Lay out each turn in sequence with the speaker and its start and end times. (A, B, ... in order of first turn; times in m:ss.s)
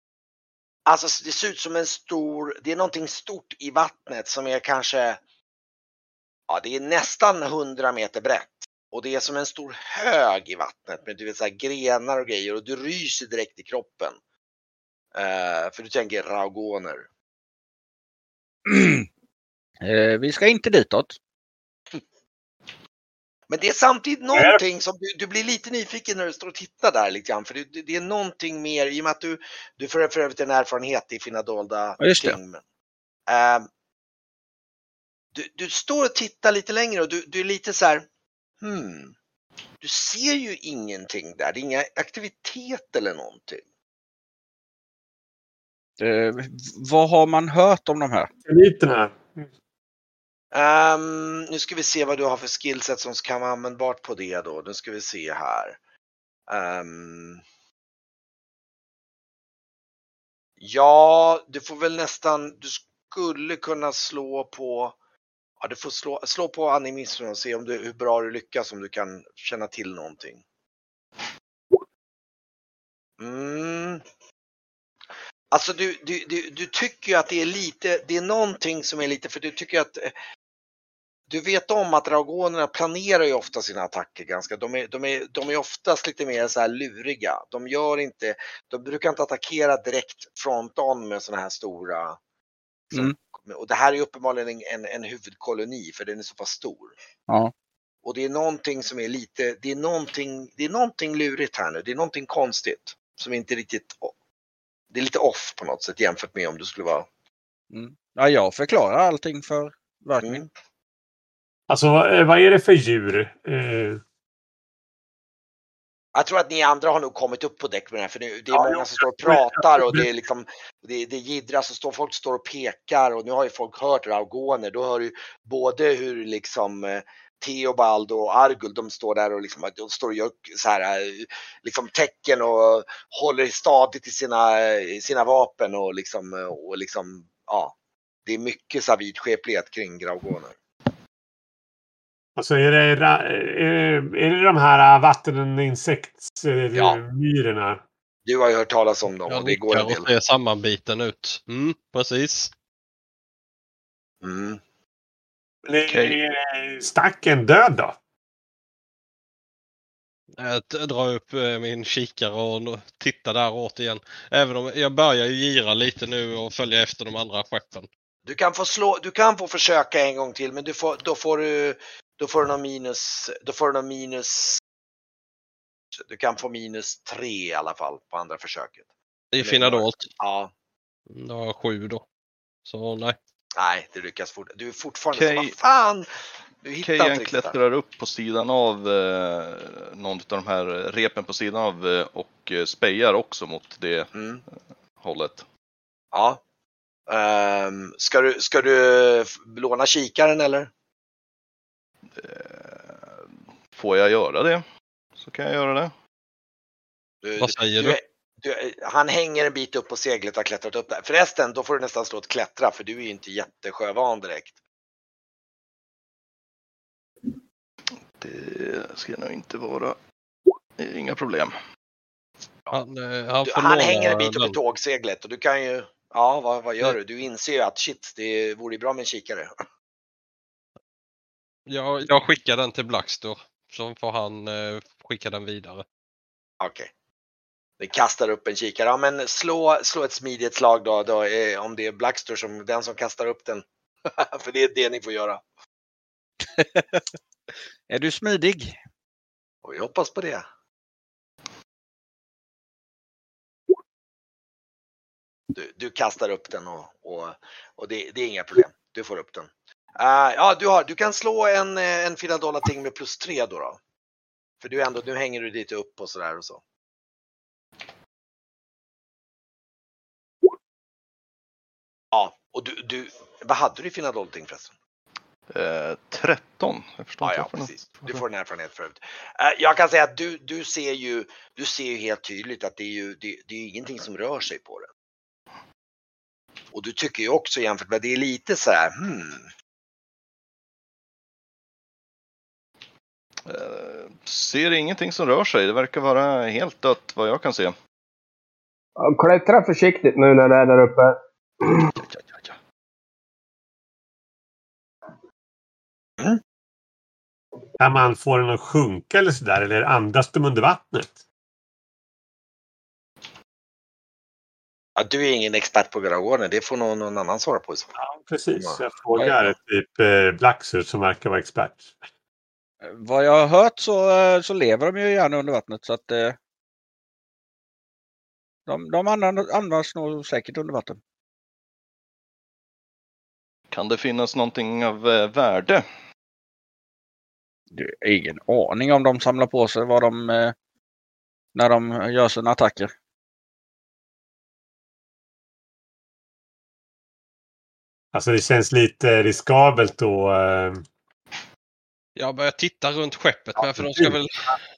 0:00.8-0:05.2 A
0:06.5-0:14.2 A
0:15.1-0:17.1 A
0:18.7-0:19.1 B
0:19.8-0:21.1 B
0:23.5-0:32.6 A
0:24.3-0:24.6 C
0:32.0-0:32.4 B
0:33.3-0:33.7 A
0:35.3-0:38.0 A
0:38.6-0:39.1 A
0:39.8-0:43.6 A
0:46.0-0:48.3 B
0:48.4-0:49.5 C
0:50.5-0:55.8 A
0:56.5-0:57.4 A
1:00.6-1:05.0 A
1:05.6-1:10.4 A
1:13.2-1:14.0 A
1:15.5-1:20.1 A
1:21.3-1:32.2 A
1:32.9-1:36.9 A
1:38.0-1:44.1 A
1:44.9-1:47.1 A
1:47.7-1:50.4 B
1:50.2-1:50.5 A
1:51.7-1:54.0 C
1:56.1-2:17.7 A
1:58.5-2:00.0 C
2:18.2-2:20.6 A
2:22.4-2:27.8 C
2:26.7-2:27.0 A
2:28.2-2:30.1 A
2:29.3-2:32.5 D
2:34.2-2:34.6 A
2:35.6-2:38.0 C
2:35.9-2:36.2 E
2:40.4-2:47.9 D
2:48.2-2:54.6 A
2:56.0-2:58.8 A
2:59.3-3:00.1 D
2:59.4-3:00.5 A
3:01.1-3:02.0 D
3:02.6-3:03.2 D
3:03.6-3:06.1 A
3:05.1-3:05.5 E
3:06.6-3:07.6 A
3:06.8-3:15.4 E
3:14.1-3:14.4 A
3:16.1-3:16.4 A
3:17.1-3:20.7 A
3:22.1-3:24.6 E
3:25.2-3:25.9 E
3:27.2-3:34.5 A
3:27.4-3:28.0 D
3:38.2-3:40.0 E
3:40.8-3:41.5 E
3:42.7-3:44.6 D
3:43.4-3:49.5 A
3:51.7-3:55.8 D
3:56.6-3:56.9 A
3:57.8-4:05.4 A
4:06.4-4:07.0 B
4:07.9-4:08.8 B
4:09.6-4:10.4 A
4:15.5-4:23.8 A
4:24.6-4:26.6 A
4:32.1-4:34.7 A
4:35.5-4:38.2 E
4:37.2-4:44.9 A
4:46.7-4:49.5 A
4:53.4-4:57.7 E
4:59.0-5:01.8 F
5:01.9-5:02.6 E
5:07.8-5:11.2 C
5:15.0-5:17.9 A
5:18.0-5:21.9 C
5:18.5-5:18.8 A
5:19.2-5:19.4 B
5:22.8-5:26.4 B
5:28.7-5:31.0 B
5:33.7-5:35.8 E
5:37.7-5:40.5 B
5:41.5-5:42.9 B
5:48.1-5:50.8 C
5:52.2-5:54.5 D
5:53.6-5:54.1 A